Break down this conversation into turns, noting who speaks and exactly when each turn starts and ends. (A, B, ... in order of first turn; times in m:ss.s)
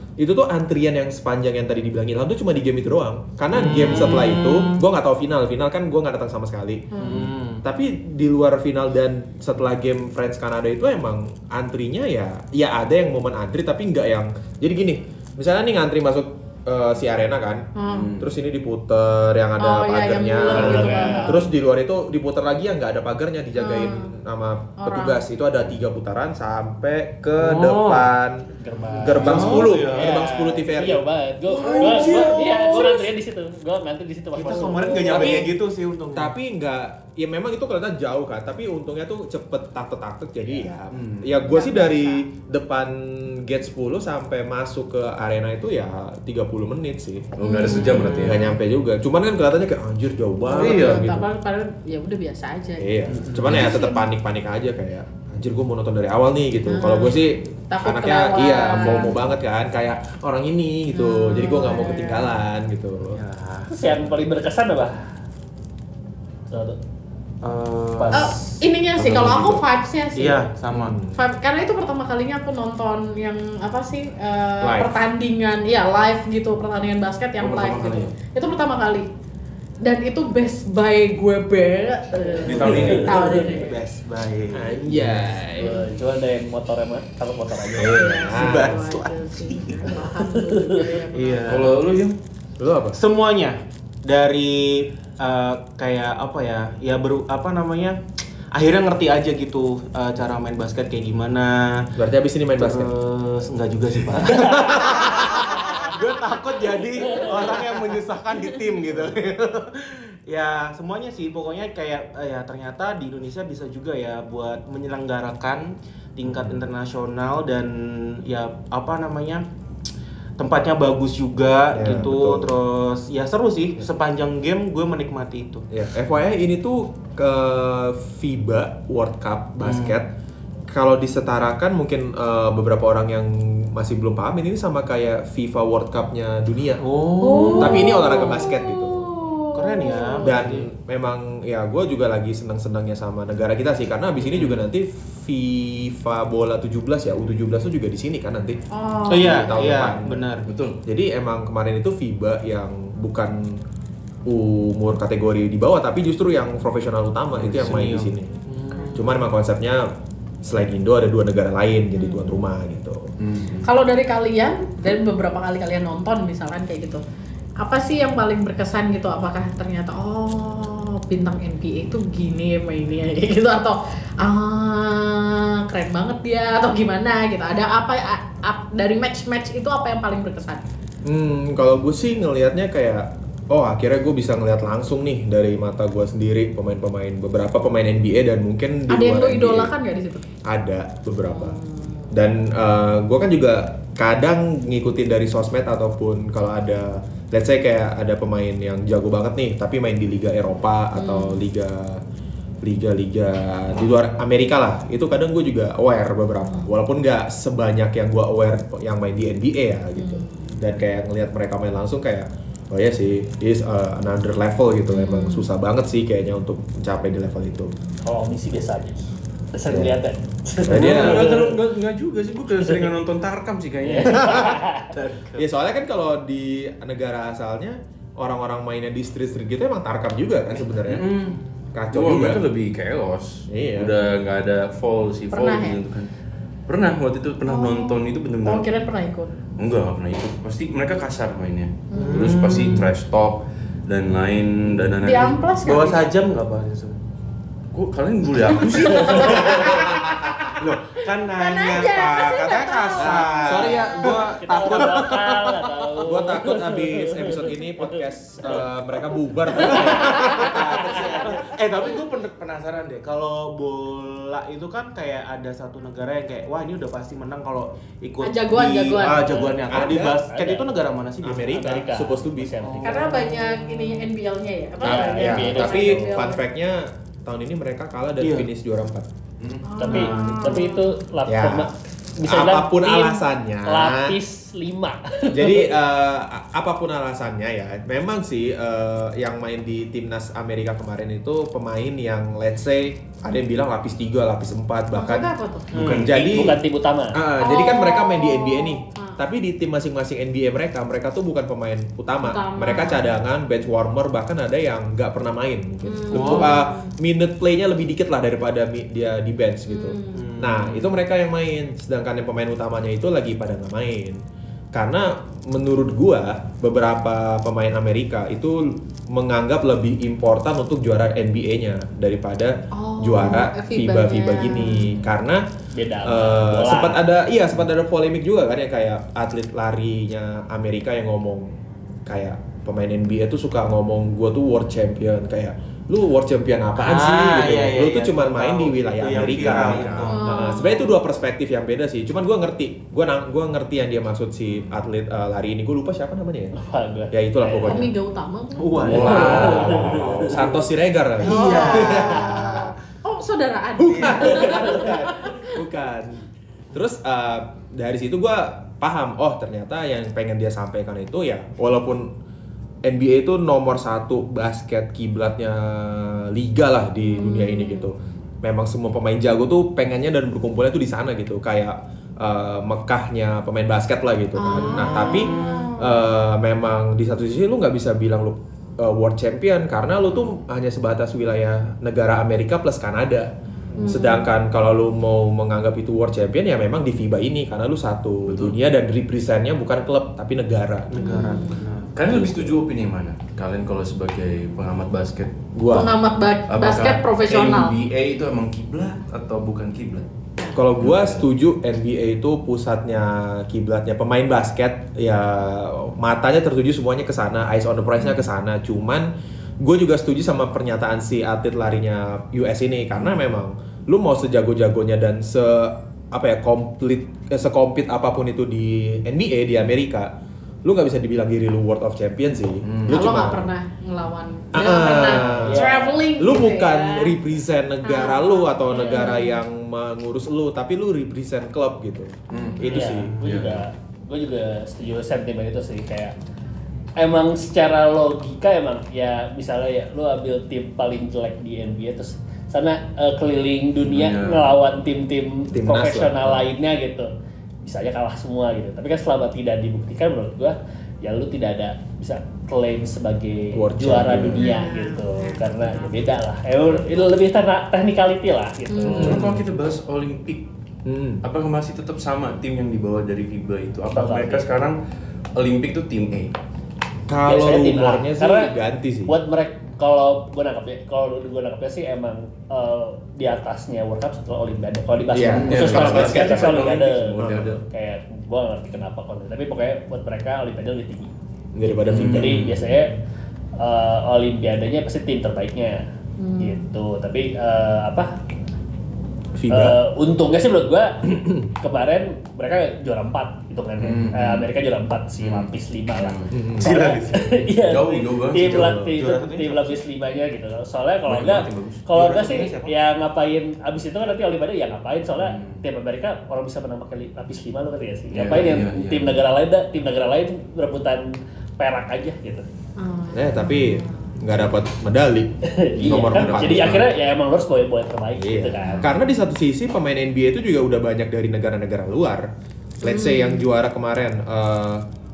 0:00.2-0:28.5 A
0:03.5-0:04.8 B
0:06.9-0:07.3 C
0:07.0-0:07.6 B
0:17.8-0:18.2 C
0:17.8-0:18.3 D
0:19.6-0:21.5 C
0:20.5-0:21.4 E
0:23.6-0:24.1 C
0:24.8-0:25.2 C
0:27.4-0:28.1 B
0:28.6-0:35.5 E
0:29.0-0:31.0 A
0:29.1-0:30.2 B
0:29.3-0:29.6 D
0:31.6-0:32.9 B
0:31.6-0:32.4 D
0:31.8-0:33.1 C
0:34.4-0:36.3 B
0:35.1-0:35.5 A
0:36.1-0:47.4 A
0:40.9-0:41.4 D
0:41.5-0:42.2 C
0:47.4-0:48.5 D
0:47.4-0:48.3 C
0:48.0-0:48.3 B
0:48.2-0:51.3 A
0:50.5-0:51.1 D
0:50.5-0:54.1 C
0:52.8-1:03.2 A
0:53.2-0:53.6 B
0:56.7-0:59.2 C
1:00.9-1:02.3 C
1:03.1-1:03.9 B
1:03.7-1:05.0 E
1:06.5-1:06.8 E
1:07.4-1:08.3 B
1:08.0-1:08.6 E
1:08.1-1:10.5 C
1:09.0-1:09.4 A
1:10.2-1:11.0 B
1:10.7-1:11.1 A
1:11.1-1:19.1 C
1:14.6-1:14.9 A
1:17.4-1:18.2 D
1:19.8-1:23.8 C
1:22.4-1:25.1 B
1:22.4-1:23.2 D
1:22.6-1:23.1 A
1:22.6-1:23.5 E
1:24.5-1:25.8 A
1:25.5-1:28.3 E
1:27.8-1:28.9 A
1:27.8-1:31.7 C
1:28.3-1:30.0 B
1:30.2-1:30.9 E
1:31.1-1:31.8 B
1:31.5-1:32.2 D
1:32.6-1:33.0 A
1:32.9-1:38.0 B
1:38.5-1:41.9 B
1:42.0-1:42.9 A
1:42.6-1:59.4 B
1:45.0-1:45.4 A
1:56.3-1:56.6 A
2:00.4-2:05.6 B
2:01.7-2:02.6 A
2:05.7-2:10.1 A
2:09.6-2:10.0 B
2:10.7-2:16.8 A
2:16.8-2:18.1 B
2:17.2-2:20.4 C
2:17.5-2:19.1 A
2:19.6-2:20.7 B
2:20.2-2:30.2 A
2:28.7-2:29.8 C
2:29.1-2:30.5 B
2:30.5-2:30.8 D
2:30.8-2:33.6 A
2:34.3-2:38.3 A
2:37.5-2:37.8 D
2:37.5-2:39.1 B
2:38.9-2:39.9 A
2:40.4-2:43.1 A
2:42.0-2:42.2 C
2:43.2-2:43.6 D
2:43.6-2:47.0 C
2:47.6-3:00.6 C
3:01.0-3:09.7 A
3:08.9-3:10.3 C
3:10.5-3:11.6 A
3:11.3-3:12.1 C
3:12.1-3:22.0 A
3:21.0-3:21.4 C
3:22.6-3:37.7 A
3:30.0-3:30.6 C
3:34.9-3:35.5 C
3:38.0-3:41.5 E
3:39.7-3:40.0 A
3:40.6-3:41.4 A
3:40.7-3:44.5 D
3:42.6-3:42.9 E
3:43.8-3:44.9 E
3:44.1-3:45.5 B
3:45.4-3:51.1 A
3:50.9-3:51.6 B
3:51.7-3:52.5 A
3:51.9-3:56.1 D
3:53.5-3:54.0 A
3:55.3-3:55.8 C
3:56.7-3:58.7 D
3:57.5-3:59.3 C
3:59.6-4:05.4 D
4:01.9-4:02.4 C
4:02.0-4:02.9 B
4:05.0-4:06.1 C
4:05.6-4:07.0 B
4:07.7-4:09.6 D
4:08.9-4:09.9 B
4:08.9-4:10.6 C
4:09.6-4:10.4 A
4:10.6-4:15.9 B
4:11.3-4:14.2 C
4:13.0-4:15.2 A
4:14.2-4:18.6 E
4:16.0-4:21.0 A
4:19.6-4:20.2 E
4:19.6-4:31.5 B
4:19.9-4:20.6 C
4:28.2-4:29.5 C
4:29.3-4:30.7 E
4:29.7-4:30.2 A
4:31.2-4:32.8 A
4:31.4-4:33.1 E
4:32.7-4:34.0 B
4:32.8-4:36.4 C
4:34.8-4:39.1 A
4:34.8-4:36.2 E
4:38.2-4:38.5 B
4:39.4-4:40.6 B
4:39.6-4:41.0 C
4:39.8-4:45.7 E
4:41.3-4:44.2 A
4:45.3-4:56.6 A
4:54.9-4:55.7 C
4:55.7-4:56.1 B
4:55.8-4:56.1 D
4:56.0-4:57.2 E
4:57.1-5:14.2 A
4:57.4-4:59.2 C
5:02.2-5:03.1 C
5:05.8-5:07.0 C
5:06.1-5:06.6 B
5:09.7-5:10.3 C
5:10.1-5:10.9 B
5:14.7-5:25.4 A
5:22.7-5:25.0 C
5:25.7-5:27.0 E
5:26.0-5:31.5 A
5:32.1-5:46.6 A
5:36.8-5:40.4 B
5:39.1-5:40.2 D
5:40.1-5:41.0 C
5:46.6-5:47.9 E
5:47.1-5:47.9 A
5:47.6-5:49.3 C
5:48.6-5:50.4 B
5:48.8-5:52.7 A
5:48.9-5:50.1 D
5:49.0-5:50.5 E
5:51.2-5:52.5 B
5:51.2-5:55.6 C
5:53.8-5:56.2 A
5:53.9-5:54.3 B
5:56.7-6:02.1 A
6:02.8-6:23.3 A
6:07.1-6:07.9 C
6:14.4-6:16.0 C
6:14.5-6:15.7 B
6:23.8-6:24.3 C
6:23.8-6:31.0 A
6:28.3-6:28.6 D
6:30.9-6:31.9 B
6:31.0-6:31.6 C
6:31.9-6:35.4 D
6:32.1-6:32.6 A
6:35.6-6:36.0 A
6:35.7-6:37.8 C
6:36.5-6:40.1 D
6:40.5-7:00.1 A
6:40.8-6:41.2 D
7:00.6-7:03.5 A
7:02.6-7:03.1 D
7:02.9-7:07.1 C
7:04.5-7:13.2 A
7:04.8-7:06.1 E
7:07.8-7:09.4 C
7:08.7-7:09.2 E
7:12.3-7:12.6 D
7:12.4-7:13.0 B
7:12.6-7:16.2 E
7:13.2-7:13.6 D
7:17.0-7:27.1 E
7:23.9-7:24.5 D
7:25.5-7:26.5 A
7:27.6-7:39.2 E
7:33.5-7:34.5 A
7:34.4-7:36.1 C
7:38.7-7:39.2 C
7:38.8-7:40.4 D
7:38.9-7:39.4 A
7:40.8-7:41.2 A
7:41.2-7:44.8 D
7:43.9-7:44.5 E
7:45.4-7:46.3 D
7:47.1-7:49.1 A
7:47.2-7:48.5 E
7:49.1-8:01.1 E
7:55.1-7:57.6 A
7:55.3-7:57.6 D
8:01.6-8:02.8 A
8:01.8-8:03.0 E
8:01.9-8:02.4 D
8:03.6-8:05.9 E
8:06.2-8:06.7 C
8:06.4-8:08.2 E
8:09.4-8:09.8 A
8:09.5-8:32.5 E
8:13.8-8:14.5 D
8:15.2-8:16.4 D
8:16.3-8:16.7 A
8:16.6-8:17.4 B
8:17.7-8:18.8 D
8:18.6-8:18.9 A
8:18.9-8:19.8 B
8:21.1-8:21.8 D
8:21.9-8:22.7 B
8:25.2-8:25.6 D
8:28.1-8:29.2 D
8:32.8-8:34.1 C
8:33.1-8:36.9 A
8:35.4-8:38.9 E
8:35.8-8:36.7 D
8:38.2-8:42.3 A
8:42.8-8:44.9 A
8:42.8-8:43.5 C